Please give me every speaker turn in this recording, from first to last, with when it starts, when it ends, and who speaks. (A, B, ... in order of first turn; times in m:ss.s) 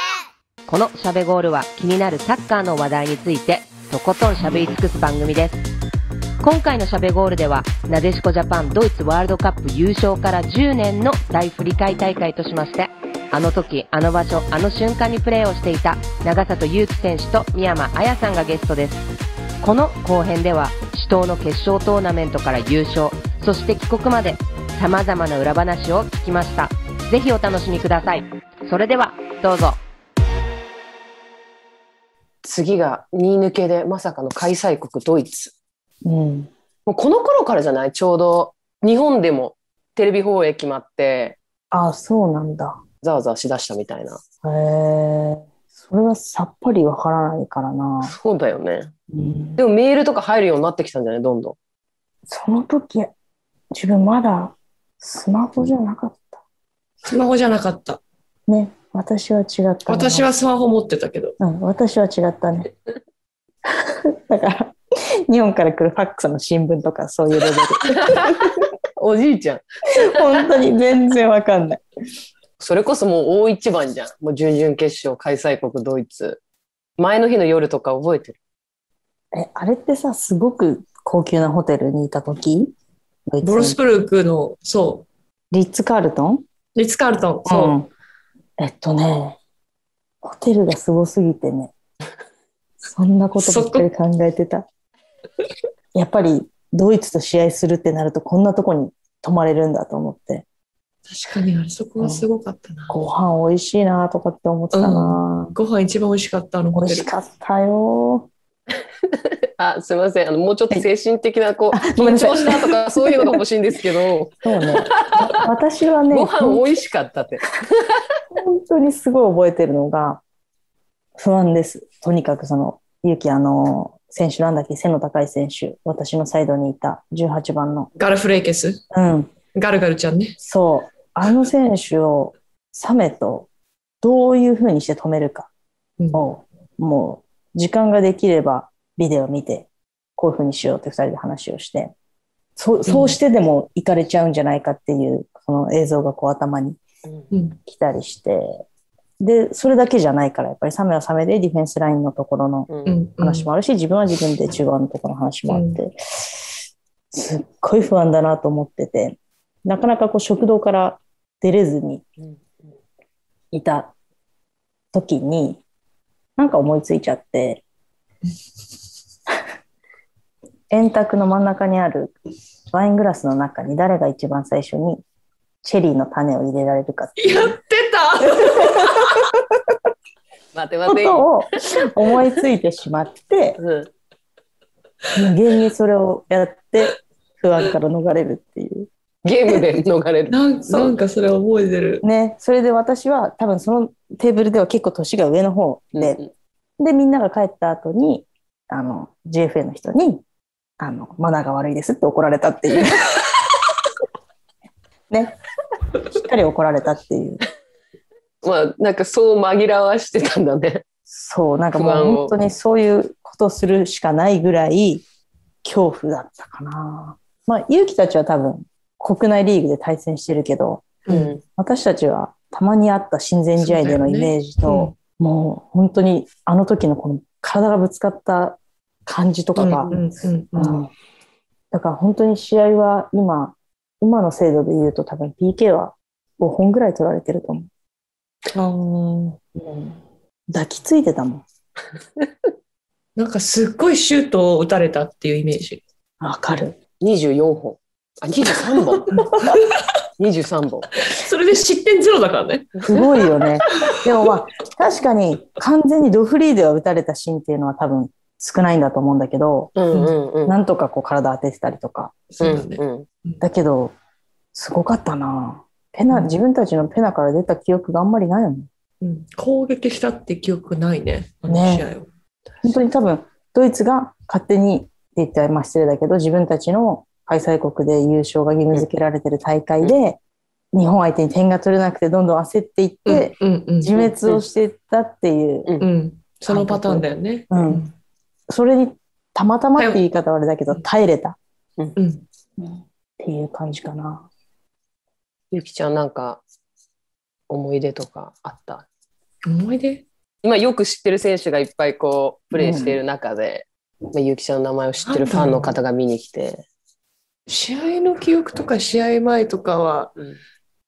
0:00.7-0:05.6 A
0:06.4-0:19.0 A
0:19.6-0:29.8 A
0:32.4-0:35.5 B
0:36.0-0:36.5 C
0:36.9-0:41.4 B
0:41.7-0:42.8 C
0:43.0-0:44.2 B
0:44.4-0:48.2 C
0:48.0-0:48.9 B
0:49.1-0:49.6 C
0:49.6-0:51.6 B
0:52.3-0:53.1 C
0:53.7-0:56.4 C
0:57.0-0:58.0 D
0:58.5-1:00.3 C
0:59.9-1:01.4 D
1:01.4-1:02.7 C
1:03.7-1:08.6 C
1:07.9-1:10.4 B
1:10.0-1:11.8 C
1:12.6-1:16.4 B
1:17.0-1:18.4 B
1:19.3-1:22.7 C
1:23.3-1:23.8 C
1:23.4-1:25.1 D
1:25.5-1:26.4 C
1:26.8-1:27.8 D
1:27.5-1:27.9 C
1:28.6-1:29.4 C
1:30.2-1:31.7 C
1:32.8-1:34.7 C
1:33.4-1:33.9 D
1:36.0-1:40.4 C
1:41.1-1:43.0 D
1:42.0-1:42.3 C
1:42.9-1:45.5 C
1:44.7-1:47.1 D
1:46.8-1:48.3 C
1:49.1-1:55.3 B
1:51.7-1:53.4 C
1:54.4-1:56.6 C
1:56.1-1:58.0 B
1:58.3-2:00.2 C
2:01.2-2:07.9 C
2:08.0-2:08.8 D
2:08.9-2:09.3 C
2:09.5-2:10.4 D
2:10.4-2:13.5 C
2:14.0-2:15.5 C
2:16.0-2:16.3 D
2:16.1-2:21.9 C
2:22.6-2:26.8 C
2:22.9-2:23.2 D
2:27.3-2:27.6 D
2:27.7-2:28.6 C
2:29.2-2:36.4 C
2:32.7-2:33.0 B
2:32.9-2:33.5 D
2:35.5-2:35.8 D
2:37.1-2:42.0 C
2:42.2-2:42.7 B
2:43.5-2:43.9 C
2:44.9-2:45.6 C
2:46.4-2:47.6 C
2:50.7-2:52.1 C
2:52.7-2:55.0 C
2:55.6-2:57.6 C
2:57.2-2:59.2 D
2:58.3-2:59.4 C
3:00.5-3:01.4 B
3:00.9-3:03.6 C
3:03.6-3:03.9 B
3:05.2-3:08.9 C
3:09.2-3:10.4 B
3:10.3-3:12.0 D
3:12.0-3:16.2 C
3:16.0-3:16.3 B
3:16.8-3:20.2 C
3:20.8-3:23.3 C
3:26.1-3:27.4 C
3:28.4-3:30.8 B
3:31.1-3:35.0 C
3:31.8-3:32.4 B
3:35.6-3:50.0 C
3:41.1-3:41.3 D
3:41.1-3:41.4 B
3:43.6-3:44.9 D
3:49.6-3:50.8 D
3:50.6-3:50.9 C
3:51.7-3:57.7 C
3:58.5-3:59.4 D
3:59.6-4:01.4 C
4:03.2-4:05.8 D
4:06.2-4:06.8 C
4:07.0-4:09.3 B
4:09.1-4:09.4 C
4:10.2-4:11.0 B
4:11.0-4:14.0 D
4:12.8-4:13.0 B
4:12.9-4:19.7 C
4:19.8-4:20.6 B
4:19.9-4:20.2 D
4:20.5-4:22.2 C
4:22.3-4:23.4 D
4:22.4-4:23.1 B
4:23.4-4:23.9 C
4:24.5-4:28.7 C
4:26.1-4:26.4 D
4:29.0-4:32.1 D
4:31.5-4:31.9 C
4:32.6-4:40.2 C
4:40.7-4:45.7 C
4:43.1-4:44.0 D
4:45.8-4:47.9 D
4:46.5-4:47.8 C
4:48.5-4:51.4 C
4:49.8-4:50.0 D
4:52.0-4:52.2 D
4:52.6-4:54.3 C
4:55.5-4:56.4 B
4:57.5-4:58.9 B
4:59.4-5:00.0 D
5:00.4-5:06.6 B
5:02.6-5:03.0 C
5:05.0-5:05.8 D
5:07.5-5:10.2 D